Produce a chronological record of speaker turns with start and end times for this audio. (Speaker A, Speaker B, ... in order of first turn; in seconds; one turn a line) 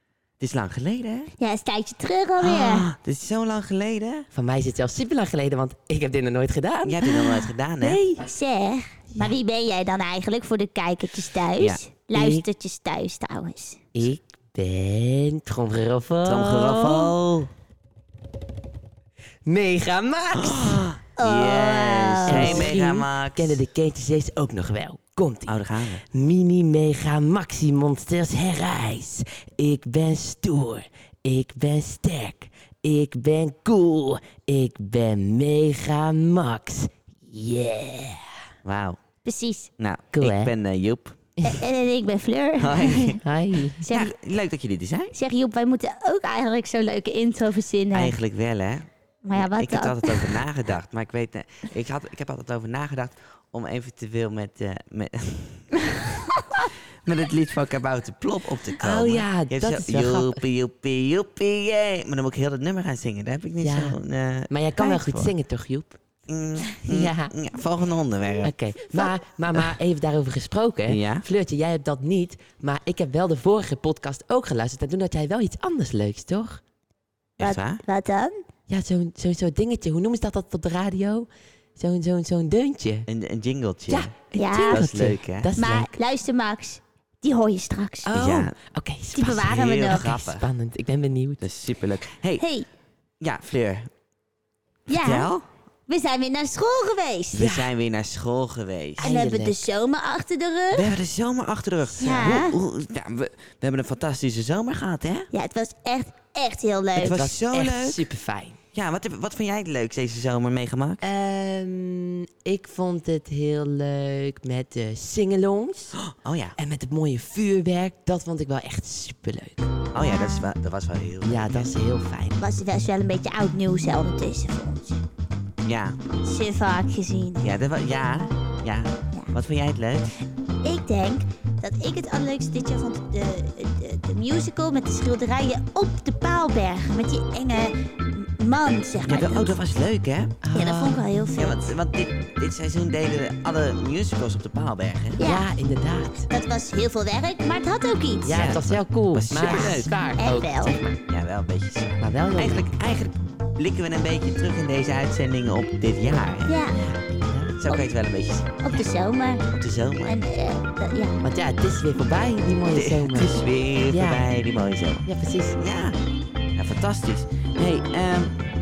Speaker A: 0.4-1.3
Speaker B: 1.4-2.9
Speaker A: 2.4-4.3
Speaker C: 4.3-8.3
Speaker A: 6.8-8.0
Speaker B: 8.2-13.8
Speaker A: 11.6-11.8
Speaker C: 12.1-12.4
Speaker C: 13.9-17.1
Speaker A: 16.2-17.5
Speaker C: 19.4-20.9
Speaker A: 20.3-23.6
Speaker B: 21.2-22.7
Speaker C: 22.3-25.6
Speaker A: 25.5-26.0
Speaker C: 26.1-38.2
Speaker A: 38.6-39.0
Speaker B: 39.2-39.7
Speaker A: 39.8-41.2
Speaker C: 40.1-40.5
Speaker B: 41.4-43.2
Speaker A: 42.6-43.2
Speaker C: 43.2-43.9
Speaker B: 43.8-44.1
Speaker A: 43.8-45.2
Speaker B: 45.1-48.2
Speaker A: 47.9-56.1
Speaker B: 49.2-50.4
Speaker A: 57.0-65.3
Speaker C: 58.8-60.4
Speaker C: 63.6-64.0
Speaker C: 64.5-66.0
Speaker A: 66.3-69.1
Speaker C: 66.8-67.3
Speaker C: 68.4-76.6
Speaker A: 70.9-71.3
Speaker A: 77.4-77.8
Speaker B: 77.4-78.4
Speaker C: 78.7-83.1
Speaker A: 83.1-84.1
Speaker C: 83.9-86.0
Speaker B: 84.4-84.8
Speaker A: 84.7-85.5
Speaker B: 85.6-88.1
Speaker C: 88.0-91.5
Speaker A: 88.1-88.6
Speaker B: 89.1-90.1
Speaker A: 89.3-90.5
Speaker A: 91.4-92.5
Speaker B: 92.4-92.7
Speaker A: 93.2-93.9
Speaker B: 94.9-95.3
Speaker A: 95.0-95.5
Speaker B: 95.9-97.5
Speaker A: 97.3-99.1
Speaker C: 97.4-97.7
Speaker C: 99.0-99.6
Speaker B: 99.0-100.9
Speaker A: 100.7-105.3
Speaker B: 102.0-102.6
Speaker B: 105.3-107.2
Speaker A: 107.0-108.0
Speaker C: 107.1-108.6
Speaker A: 108.7-111.0
Speaker C: 111.0-116.0
Speaker A: 116.0-116.6
Speaker C: 116.6-119.7
Speaker A: 119.9-121.7
Speaker B: 120.0-120.5
Speaker C: 121.2-122.4
Speaker B: 122.4-125.0
Speaker A: 125.6-126.0
Speaker B: 126.2-127.5
Speaker A: 127.4-130.2
Speaker B: 130.6-139.6
Speaker A: 139.0-140.4
Speaker C: 140.4-141.1
Speaker B: 140.5-141.7
Speaker A: 141.3-145.2
Speaker B: 145.2-145.5
Speaker C: 145.2-146.3
Speaker B: 146.3-148.5
Speaker C: 148.2-151.0
Speaker A: 148.3-150.0
Speaker B: 149.4-150.8
Speaker A: 151.1-156.7
Speaker C: 152.0-152.7
Speaker B: 156.5-156.8
Speaker C: 157.2-157.6
Speaker A: 157.6-158.8
Speaker B: 158.6-159.4
Speaker A: 159.5-160.3
Speaker B: 160.1-161.2
Speaker C: 161.2-164.3
Speaker A: 162.7-166.0
Speaker C: 165.1-165.6
Speaker A: 166.5-168.4